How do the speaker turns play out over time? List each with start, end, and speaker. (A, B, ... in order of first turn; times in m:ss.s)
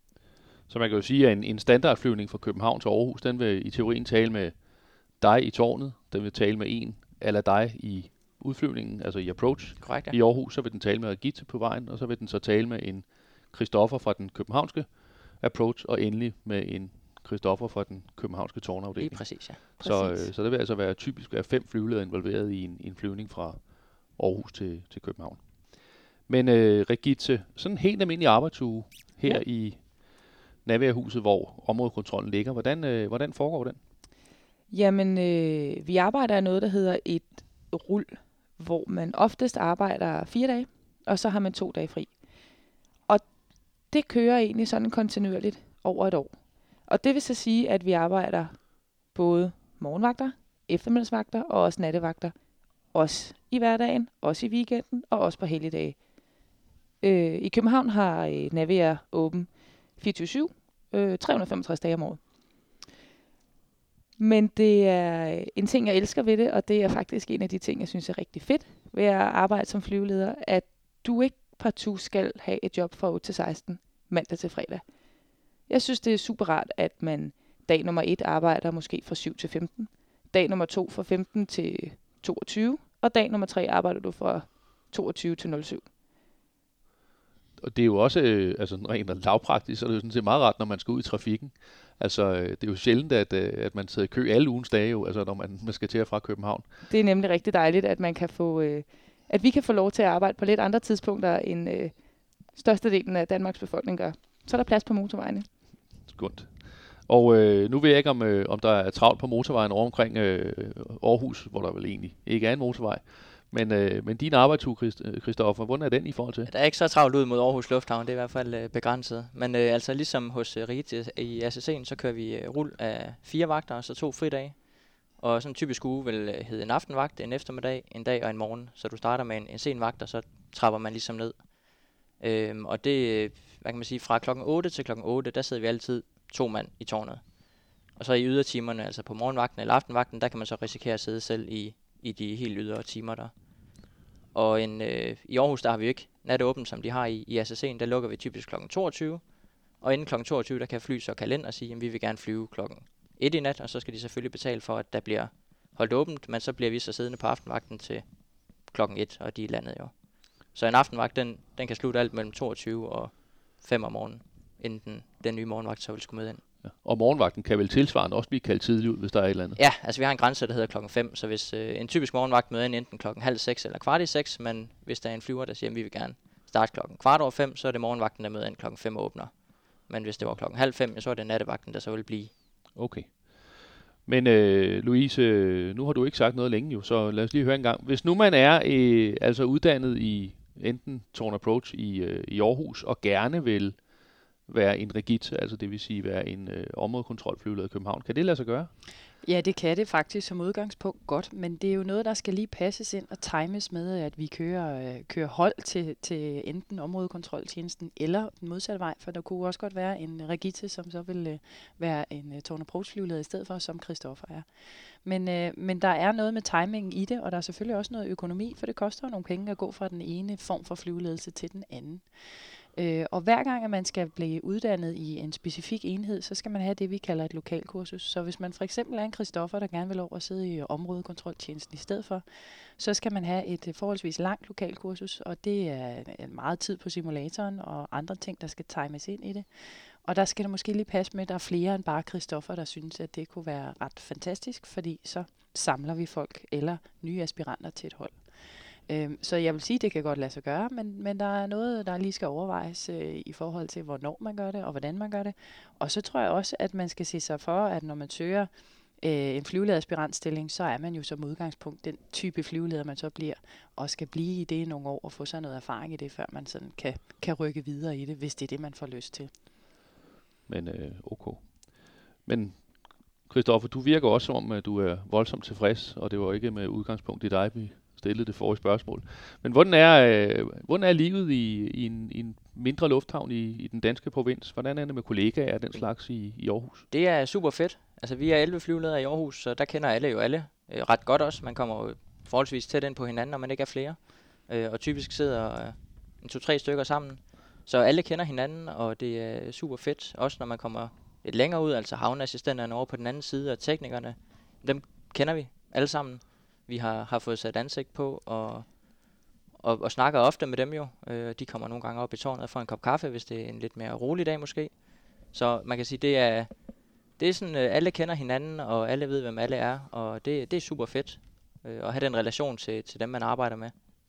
0:00.7-0:33.8 A
0:09.8-0:10.1 B
0:19.0-0:20.2 B
0:34.7-0:42.2 C
0:43.8-0:56.4 C
0:57.0-1:02.2 C
1:04.2-1:25.9 C
1:27.6-1:36.6 A
1:36.9-1:45.5 C
1:46.0-1:56.5 A
1:56.5-2:23.3 B
2:24.3-2:46.4 B
2:46.6-2:49.6 A
2:49.6-3:02.3 B
3:02.7-3:18.7 A
3:19.2-4:29.3 D
4:30.5-4:46.8 A
4:46.9-5:16.5 B
5:17.1-5:23.7 B